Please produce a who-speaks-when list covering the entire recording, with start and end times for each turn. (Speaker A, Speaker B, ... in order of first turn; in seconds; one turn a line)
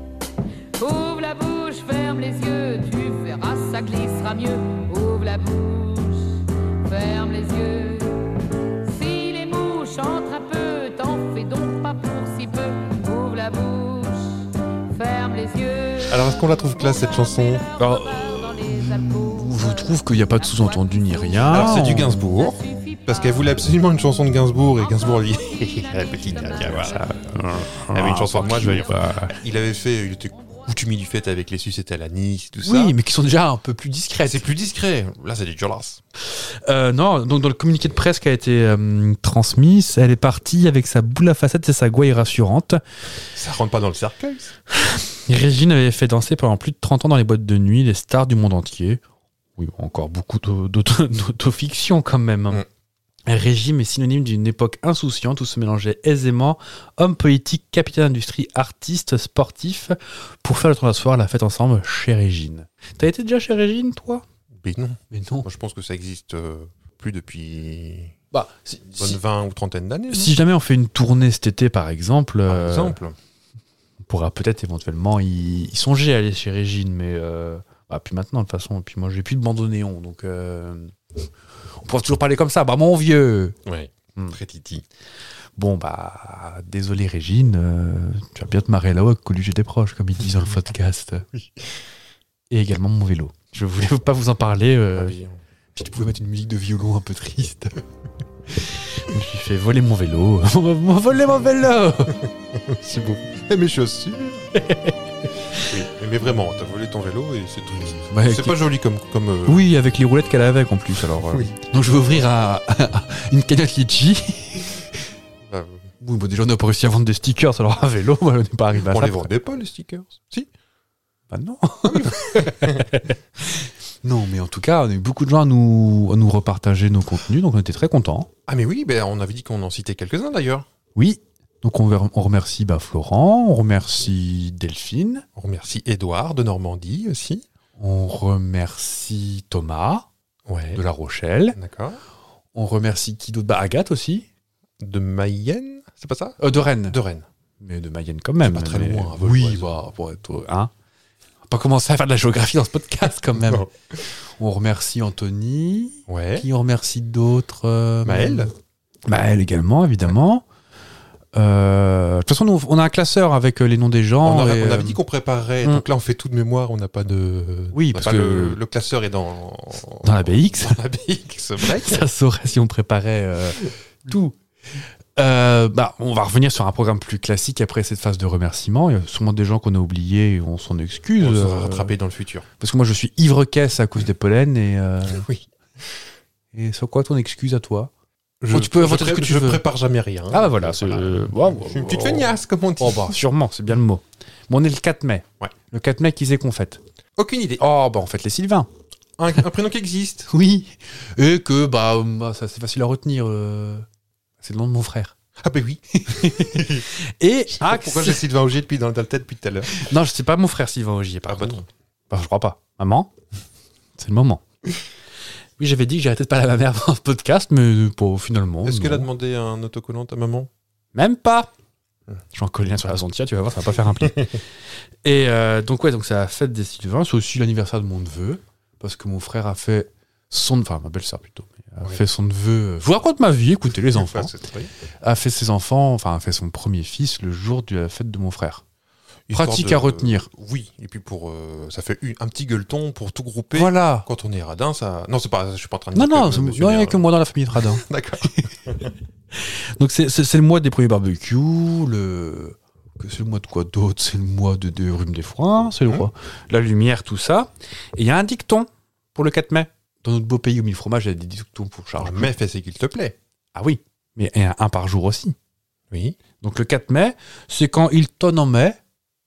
Speaker A: 0.8-8.3
Speaker A: 8.8-16.2
Speaker B: 16.1-17.6
Speaker C: 17.8-22.2
Speaker A: 17.8-23.5
Speaker B: 21.5-27.0
Speaker A: 24.8-27.1
Speaker C: 26.6-29.3
Speaker B: 27.9-33.0
Speaker C: 32.6-34.5
Speaker B: 34.2-36.0
Speaker C: 36.6-42.8
Speaker B: 43.3-44.5
Speaker C: 45.3-49.0
Speaker C: 49.6-52.6
Speaker C: 53.3-64.2
Speaker B: 64.5-68.2
Speaker C: 65.1-65.5
Speaker C: 68.3-69.2
Speaker B: 68.9-70.3
Speaker C: 70.1-73.0
Speaker B: 72.5-73.2
Speaker C: 74.1-80.9
Speaker C: 81.8-83.6
Speaker B: 83.7-84.8
Speaker C: 85.6-91.2
Speaker B: 91.3-91.8
Speaker C: 92.5-95.2
Speaker B: 94.9-95.4
Speaker C: 95.8-97.8
Speaker C: 98.5-102.2
Speaker B: 102.2-104.5
Speaker C: 104.5-105.0
Speaker B: 105.5-109.7
Speaker C: 108.1-108.6
Speaker C: 109.5-114.7
Speaker B: 115.4-115.9
Speaker C: 116.0-119.3
Speaker B: 118.8-120.5
Speaker C: 121.3-128.3
Speaker B: 121.8-122.8
Speaker B: 128.5-130.7
Speaker C: 131.0-135.2
Speaker B: 135.4-137.4
Speaker C: 137.8-140.1
Speaker B: 140.5-140.8
Speaker C: 140.8-141.6
Speaker B: 141.5-142.0
Speaker C: 142.5-144.2
Speaker B: 144.8-147.3
Speaker C: 146.4-147.0
Speaker C: 147.6-150.7
Speaker B: 148.4-149.7
Speaker C: 151.5-153.7
Speaker B: 153.3-154.0
Speaker C: 154.4-158.5
Speaker B: 156.1-156.5
Speaker B: 158.0-158.5
Speaker C: 159.1-160.4
Speaker C: 161.3-165.0
Speaker B: 164.2-172.1
Speaker C: 167.7-168.6
Speaker C: 170.0-170.8
Speaker C: 171.6-174.4
Speaker C: 175.2-181.9
Speaker B: 181.2-182.5
Speaker C: 182.6-185.3
Speaker B: 185.1-186.0
Speaker C: 186.5-187.9
Speaker B: 188.4-193.2
Speaker C: 188.5-189.6
Speaker C: 190.3-196.8
Speaker B: 197.2-197.6
Speaker C: 197.6-198.7
Speaker B: 199.2-200.3
Speaker C: 200.3-203.9
Speaker C: 204.4-205.1
Speaker B: 205.4-206.9
Speaker C: 206.0-208.2
Speaker B: 207.5-209.8
Speaker C: 209.7-213.1
Speaker B: 211.3-211.7
Speaker C: 214.0-214.4
Speaker C: 215.6-219.1
Speaker B: 218.6-220.5
Speaker C: 220.9-221.5
Speaker C: 222.3-224.4
Speaker C: 225.0-234.3
Speaker B: 233.8-234.7
Speaker C: 235.0-238.6
Speaker B: 239.3-248.9
Speaker C: 239.3-240.3
Speaker C: 243.5-244.1
Speaker C: 245.9-247.8
Speaker C: 249.3-262.3
Speaker B: 262.0-263.1
Speaker C: 263.5-265.4
Speaker B: 265.9-266.2
Speaker C: 266.4-268.8